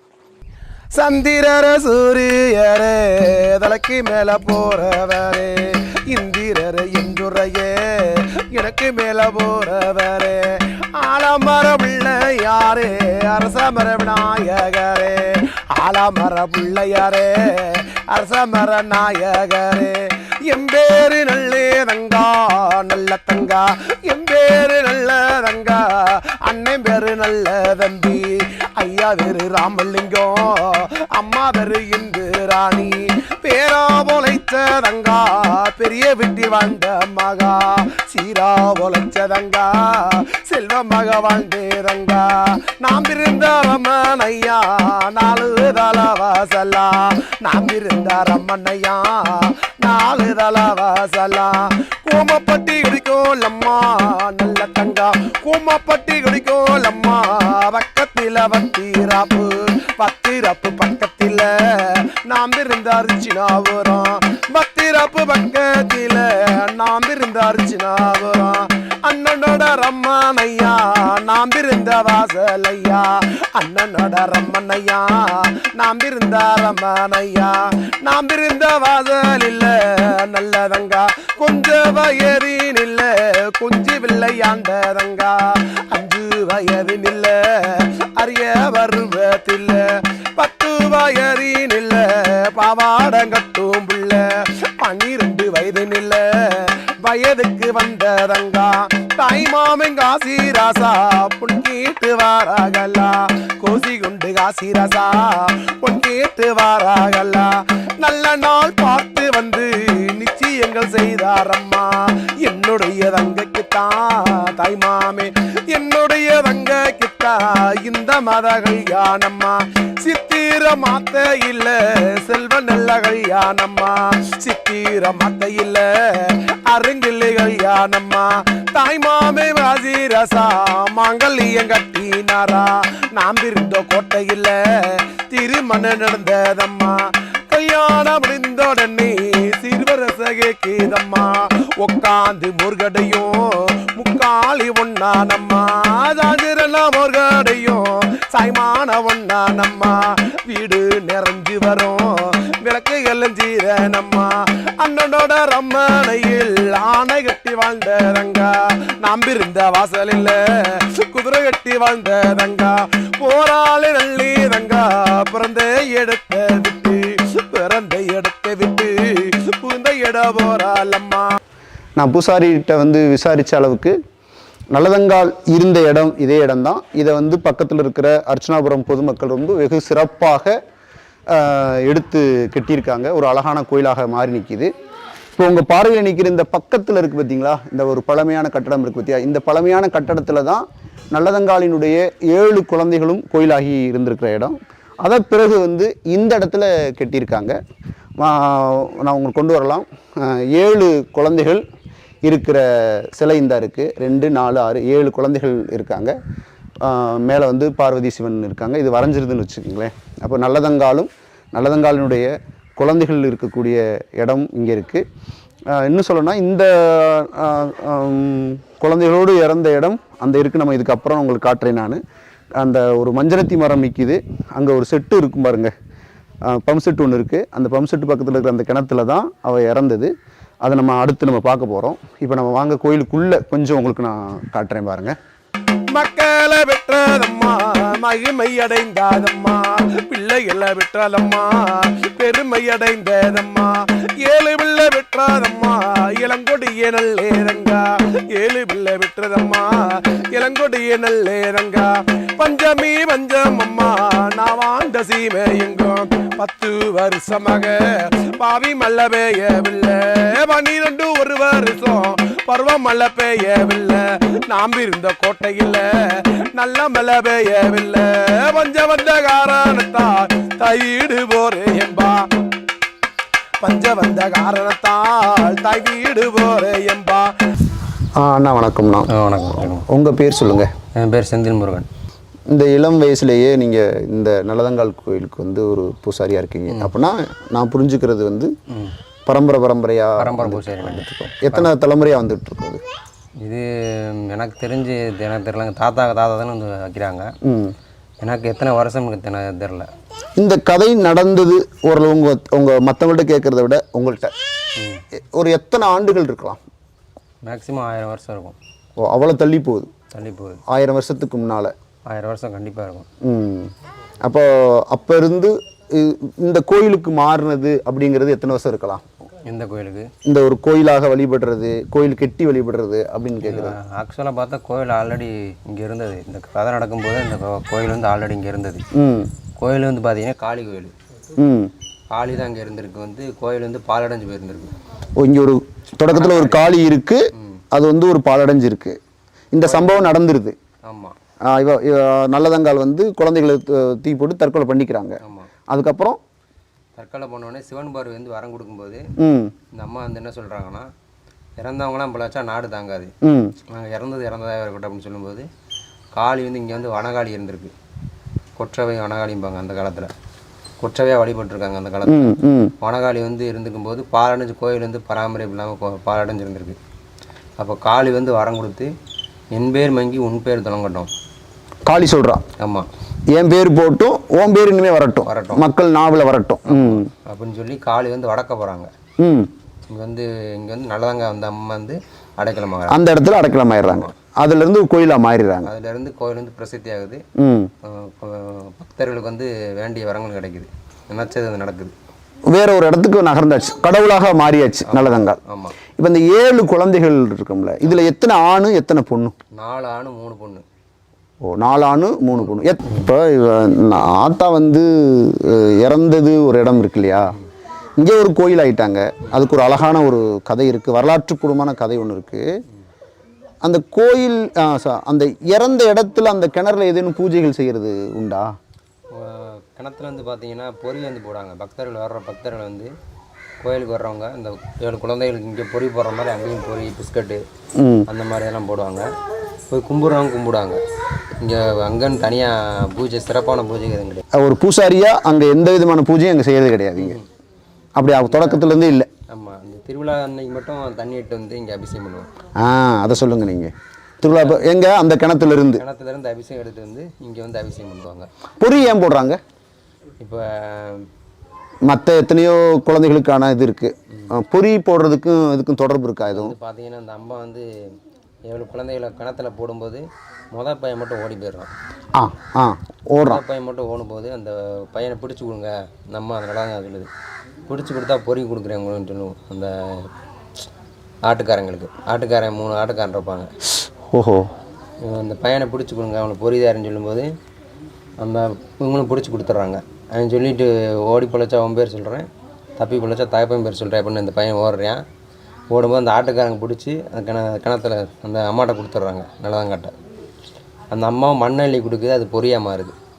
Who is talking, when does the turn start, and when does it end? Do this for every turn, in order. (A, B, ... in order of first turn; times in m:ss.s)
0:01.0-2:51.4 A
2:52.0-2:54.0 B
2:54.7-3:00.6 B
3:01.3-3:04.7 B
3:05.4-3:17.6 B
3:18.2-3:21.6 B
3:22.3-3:26.1 B
3:26.8-3:35.0 B
3:35.7-3:42.0 B
3:42.6-3:45.7 B
3:46.5-3:50.1 B
3:50.6-3:55.2 B
3:55.9-4:32.3 A
4:33.6-4:37.3 A
4:38.2-4:40.7 B
4:39.1-4:39.9 C
4:41.0-4:41.9 C
4:42.5-4:48.5 B
4:49.3-4:52.8 B
4:50.2-4:51.7 C
4:53.4-4:57.3 C
4:57.5-4:57.8 B
4:58.2-4:59.9 C
5:00.4-5:04.3 B
5:04.8-5:05.0 C
5:05.2-5:06.6 B
5:07.5-5:08.6 C
5:09.0-5:09.9 B
5:10.1-5:10.6 C
5:10.7-5:11.7 B
5:12.1-5:13.1 C
5:13.2-5:13.7 B
5:14.2-5:19.0 B
5:19.5-5:20.1 C
5:20.2-5:23.8 B
5:23.4-5:28.8 C
5:29.0-5:29.3 B
5:29.6-5:30.9 C
5:31.4-5:31.7 B
5:32.1-5:34.7 C
5:35.2-5:39.0 B
5:36.1-5:36.6 C
5:37.4-5:37.6 C
5:39.5-5:40.6 B
5:39.6-5:40.1 C
5:40.9-5:41.2 C
5:41.5-5:46.2 B
5:45.2-5:45.5 C
5:47.0-5:49.0 C
5:49.2-5:49.5 B
5:49.7-5:50.9 C
5:51.6-5:53.1 C
5:53.2-5:53.6 B
5:53.7-5:55.5 C
5:56.2-5:57.7 C
5:58.6-6:00.1 C
6:00.8-6:06.8 C
6:02.1-6:02.7 B
6:07.6-6:08.9 C
6:09.5-6:11.1 C
6:11.9-6:12.4 B
6:12.6-6:12.9 C
6:13.3-6:17.1 B
6:15.3-6:15.6 C
6:16.7-6:18.9 C
6:19.2-6:19.5 B
6:19.9-6:23.0 C
6:22.9-6:25.7 B
6:25.7-6:27.2 C
6:27.4-6:27.7 B
6:27.8-6:31.9 C
6:32.5-6:35.4 B
6:34.9-6:35.8 C
6:36.0-6:39.4 B
6:39.6-6:40.6 C
6:41.4-6:47.3 B
6:48.0-6:52.4 B
6:53.6-6:58.5 B
6:59.1-7:02.9 C
7:03.6-7:07.4 C
7:07.8-7:08.1 B
7:08.1-7:09.0 C
7:09.7-7:10.8 C
7:11.4-7:14.2 C
7:14.4-7:17.2 B
7:17.0-7:17.2 C
7:18.0-7:19.1 B
7:18.3-7:18.6 C
7:19.3-7:22.3 C
7:22.6-7:25.8 B
7:24.3-7:24.6 C
7:25.8-7:28.3 C
7:28.6-7:29.4 B
7:30.2-7:31.1 C
7:31.9-7:36.6 B
7:36.3-7:37.7 C
7:38.5-7:40.0 C
7:40.5-7:41.7 C
7:42.2-7:43.4 B
7:43.2-7:47.1 C
7:47.7-7:50.1 C
7:51.3-7:53.5 C
7:54.1-7:54.4 B
7:55.0-7:57.3 C
7:58.2-8:02.3 C
8:02.8-8:05.0 C
8:05.7-8:09.9 C
8:10.9-8:12.9 C